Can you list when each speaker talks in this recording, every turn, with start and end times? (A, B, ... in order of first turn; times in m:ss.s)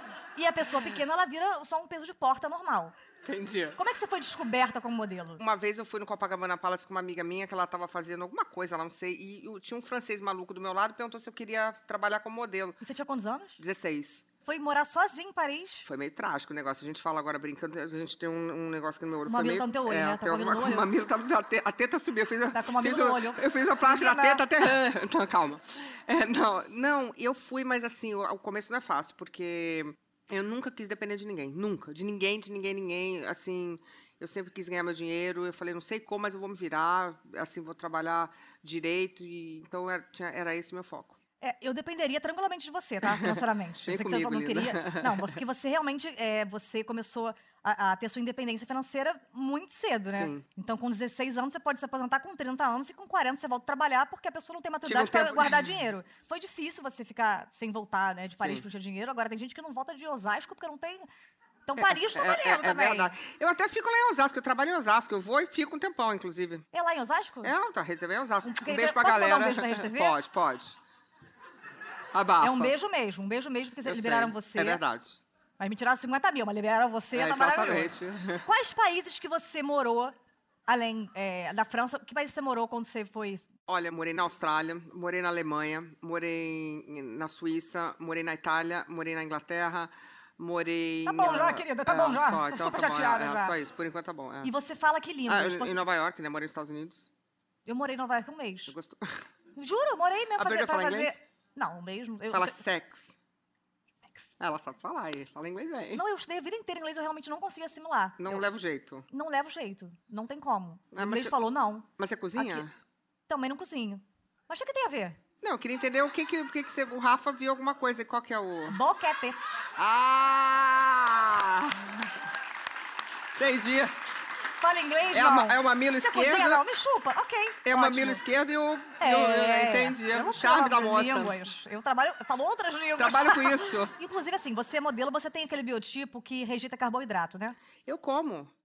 0:00.4-0:02.9 A
0:03.2-0:03.8 B
0:03.8-0:05.4 A
0:05.4-0:12.8 B
0:12.8-0:13.6 A
0:13.6-0:14.3 B
0:14.4-0:15.9 A
0:15.8-0:41.2 B
0:19.3-0:20.9 A
0:22.5-0:24.5 A
0:41.4-1:01.1 A
0:43.1-0:45.4 B
0:50.1-0:50.4 B
0:54.8-0:55.7 B
0:58.4-0:58.6 B
1:01.7-1:03.2 A
1:01.8-1:06.7 B
1:06.7-1:07.5 A
1:07.4-1:10.8 B
1:08.4-1:10.2 A
1:12.1-1:12.7 B
1:12.4-1:14.8 A
1:13.8-1:15.2 B
1:15.6-1:20.2 A
1:17.1-1:18.4 B
1:20.7-1:23.5 A
1:23.7-1:34.5 B
1:31.0-1:33.6 A
1:34.4-1:35.8 A
1:35.3-1:37.1 B
1:37.7-1:38.8 A
1:38.7-1:39.2 B
1:39.6-1:42.6 A
1:40.4-1:41.2 B
1:42.3-1:43.2 B
1:44.4-1:46.0 B
1:45.9-1:48.4 A
1:48.2-1:49.1 B
1:49.1-1:52.6 A
1:50.9-1:51.3 B
1:52.0-1:52.7 B
1:53.3-1:55.2 A
1:55.4-1:58.8 B
1:58.7-1:59.4 A
1:59.8-2:02.0 B
2:03.4-2:04.0 B
2:04.6-2:08.2 A
2:05.1-2:06.6 B
2:07.6-2:11.4 B
2:09.0-2:17.6 A
2:13.0-2:13.9 B
2:17.8-2:18.5 B